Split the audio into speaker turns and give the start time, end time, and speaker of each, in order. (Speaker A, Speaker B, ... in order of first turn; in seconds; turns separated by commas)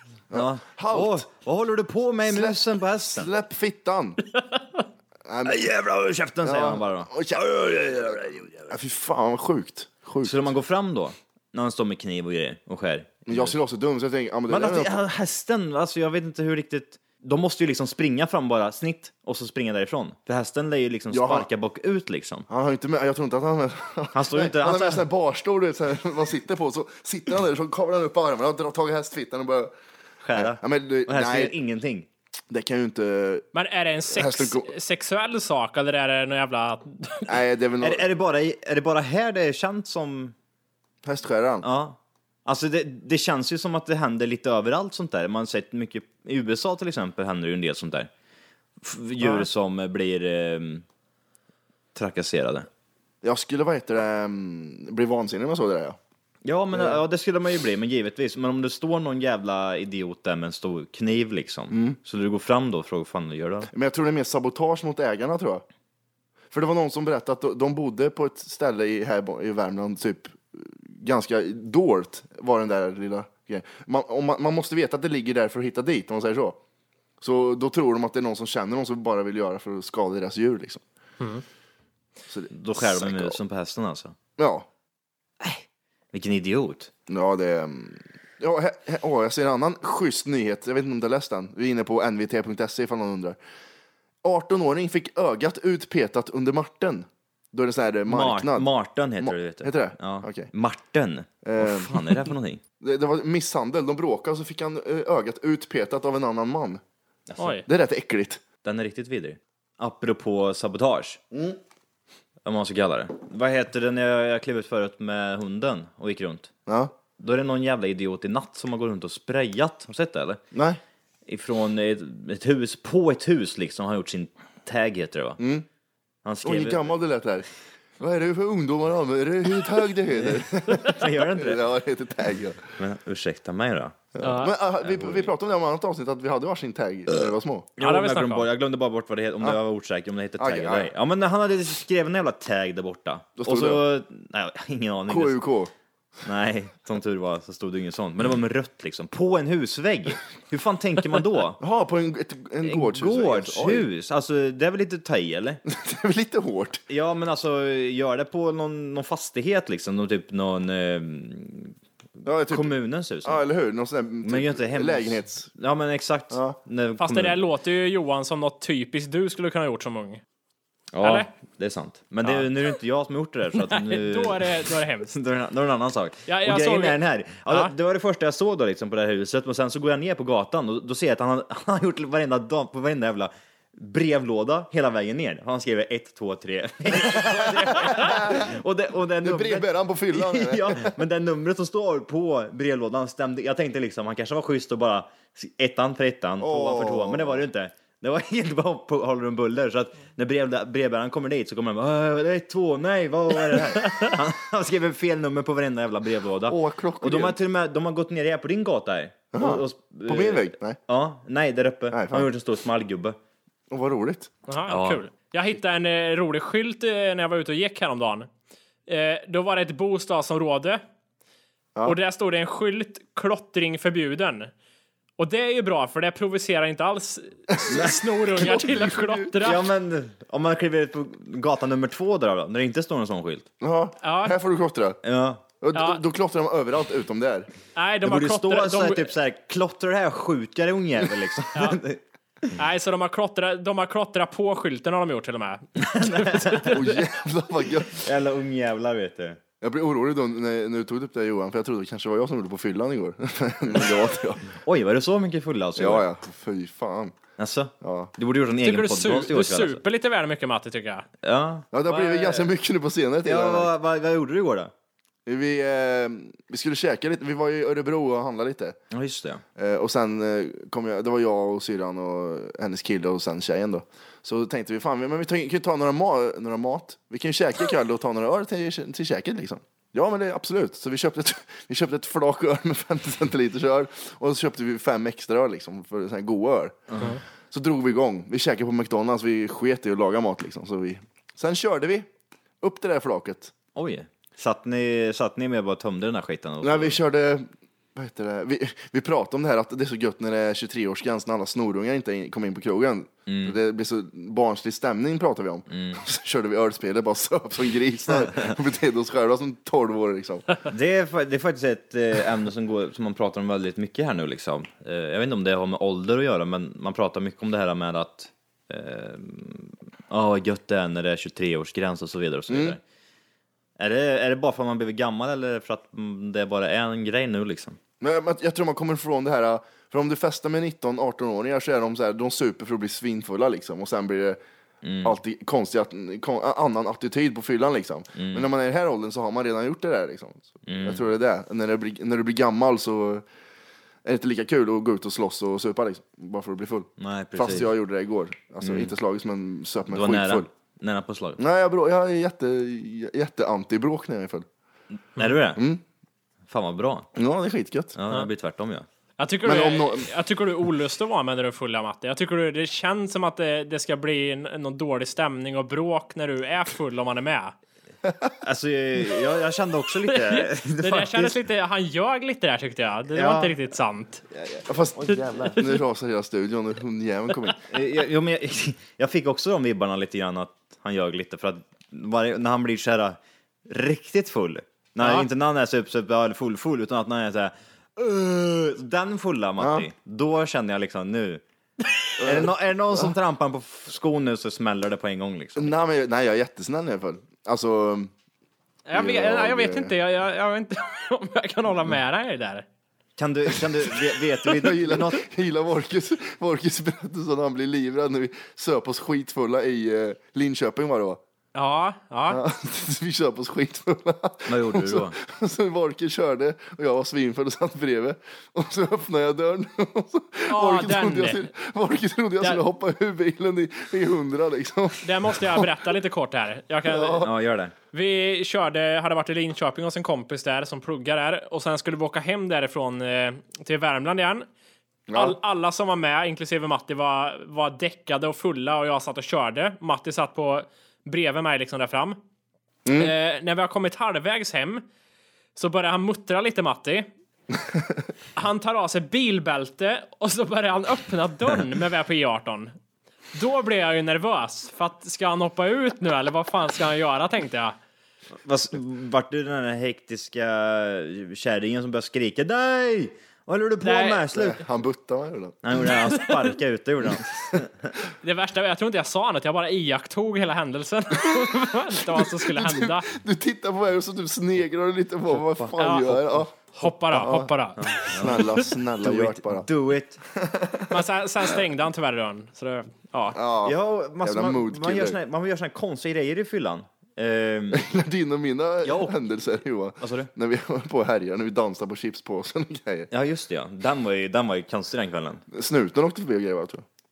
Speaker A: 0.3-1.2, Speaker B: 0.3-3.3, Speaker A: 2.3-4.2, Speaker A: 5.2-5.7, Speaker B: 5.5-8.7, Speaker A: 6.4-10.5, Speaker B: 10.2-13.5, Speaker A: 13.3-15.0, Speaker B: 14.5-22.5, Speaker A: 21.1-21.5, Speaker A: 22.5-29.7, Speaker B: 24.1-25.1, Speaker B: 30.2-32.1, Speaker A: 30.4-31.5, Speaker A: 32.5-33.5, Speaker C: 33.5-37.3, Speaker A: 34.1-34.7, Speaker A: 37.2-38.1, Speaker B: 37.8-40.3, Speaker A: 41.0-41.7, Speaker B: 41.6-48.1, Speaker B: 48.8-50.9, Speaker A: 49.2-49.5, Speaker B: 52.0-52.7, Speaker A: 53.2-56.0, Speaker B: 56.5-63.7, Speaker A: 56.7-57.0, Speaker A: 61.7-62.0, Speaker A: 63.7-65.6, Speaker A: 66.5-76.6, Speaker A: 77.2-80.8, Speaker A: 82.3-83.4, Speaker B: 82.5-84.2, Speaker A: 84.4-84.7, Speaker B: 85.4-86.9, Speaker A: 87.1-93.4, Speaker A: 94.2-98.7, Speaker B: 98.1-102.6, Speaker A: 99.2-100.5, Speaker A: 101.4-102.3, Speaker A: 102.8-106.8, Speaker B: 107.3-107.6, Speaker C: 107.4-107.7, Speaker A: 107.7-108.4, Speaker B: 108.6-111.2, Speaker A: 111.3-111.6, Speaker B: 112.4-116.5, Speaker A: 116.7-116.9, Speaker B: 117.2-120.4, Speaker A: 120.5-120.8, Speaker B: 121.3-125.4, Speaker A: 125.4-125.7, Speaker B: 126.2-126.8, Speaker A: 126.4-127.5, Speaker A: 128.0-132.7, Speaker B: 130.2-131.7, Speaker B: 132.8-134.2, Speaker A: 134.2-137.7, Speaker C: 134.2-134.5, Speaker B: 134.8-135.3, Speaker B: 137.8-145.4, Speaker C: 137.8-138.5, Speaker A: 140.4-140.9, Speaker A: 143.4-143.8, Speaker A: 145.1-145.7, Speaker B: 146.2-151.6, Speaker A: 151.6-153.9, Speaker B: 152.6-155.6, Speaker A: 155.7-156.8, Speaker B: 156.9-161.8, Speaker A: 162.2-165.5, Speaker B: 162.5-163.4, Speaker B: 164.2-167.4, Speaker C: 167.0-170.2, Speaker B: 170.9-213.2, Speaker C: 171.0-171.3, Speaker C: 173.7-175.1, Speaker C: 176.3-177.0, Speaker A: 187.0-188.6, Speaker A: 189.2-191.0, Speaker A: 196.4-197.4, Speaker A: 206.5-207.4, Speaker A: 209.3-210.8, Speaker A: 211.9-212.3, Speaker A: 213.7-214.3, Speaker C: 214.5-218.3, Speaker B: 214.7-215.0, Speaker C: 218.9-220.8, Speaker C: 221.8-224.5, Speaker C: 225.2-229.6, Speaker A: 227.7-229.5, Speaker B: 227.7-228.0, Speaker B: 229.4-233.5, Speaker A: 233.6-235.0, Speaker C: 234.0-234.4, Speaker B: 235.0-235.4, Speaker A: 235.6-237.5, Speaker C: 235.7-236.0, Speaker C: 237.8-239.1, Speaker B: 238.1-242.0, Speaker C: 241.6-241.8, Speaker C: 242.6-247.0, Speaker B: 245.8-246.8, Speaker A: 246.7-248.1, Speaker B: 247.9-249.4, Speaker A: 249.6-254.6, Speaker B: 254.6-256.1, Speaker A: 255.8-257.2, Speaker B: 257.4-259.8, Speaker A: 257.8-258.1, Speaker C: 258.6-261.1, Speaker B: 261.2-261.7, Speaker A: 261.7-263.7, Speaker C: 261.9-262.3, Speaker B: 263.2-264.7, Speaker A: 265.3-268.8, Speaker B: 268.9-269.4, Speaker A: 269.6-287.0, Speaker A: 287.5-292.1, Speaker A: 292.6-293.5, Speaker B: 293.8-297.0, Speaker A: 296.6-310.5, Speaker B: 303.3-303.6, Speaker B: 305.7-306.0, Speaker B: 310.7-322.8, Speaker A: 322.5-322.8, Speaker B: 323.8-327.8, Speaker A: 328.0-334.4, Speaker B: 334.8-335.2, Speaker A: 335.0-343.2, Speaker B: 338.2-338.5, Speaker B: 340.7-341.1, Speaker A: 344.1-350.5, Speaker B: 347.0-347.7, Speaker B: 348.6-348.9, Speaker B: 349.9-351.4, Speaker A: 351.4-354.5, Speaker B: 355.1-355.6, Speaker A: 355.5-355.8, Speaker B: 356.5-357.1, Speaker A: 357.2-358.0, Speaker B: 358.0-358.9, Speaker C: 359.2-367.6, Speaker A: 359.4-360.1, Speaker B: 368.4-371.4, Speaker C: 370.1-374.2, Speaker B: 373.1-373.6, Speaker A: 374.4-377.6, Speaker B: 375.0-375.5, Speaker B: 377.7-391.4, Speaker C: 385.0-385.3, Speaker A: 389.6-389.9, Speaker A: 392.2-393.1, Speaker B: 392.2-395.7, Speaker A: 395.6-398.1, Speaker C: 398.9-402.6, Speaker A: 398.9-399.9, Speaker B: 403.2-405.2, Speaker A: 404.4-411.2, Speaker C: 411.6-412.4, Speaker A: 412.3-425.7, Speaker B: 414.5-415.2, Speaker C: 420.5-421.5, Speaker C: 425.0-427.3, Speaker A: 426.9-427.3, Speaker B: 427.2-427.7, Speaker C: 427.9-434.5, Speaker A: 435.1-435.4, Speaker C: 435.1-442.2, Speaker A: 442.9-443.1, Speaker C: 442.9-444.8, Speaker C: 445.6-447.1, Speaker C: 448.4-452.7, Speaker C: 453.3-457.8, Speaker B: 458.4-464.6, Speaker C: 463.8-464.3, Speaker A: 464.3-465.9, Speaker B: 465.6-467.9, Speaker C: 468.2-473.1, Speaker A: 472.1-477.5, Speaker C: 475.8-478.1, Speaker B: 477.8-480.2, Speaker A: 478.1-479.7, Speaker A: 480.4-481.0, Speaker C: 480.9-483.4, Speaker A: 483.3-485.2, Speaker B: 483.6-487.8, Speaker A: 487.7-493.1, Speaker B: 488.8-489.1, Speaker B: 490.0-490.3, Speaker B: 493.1-495.4, Speaker A: 495.5-496.9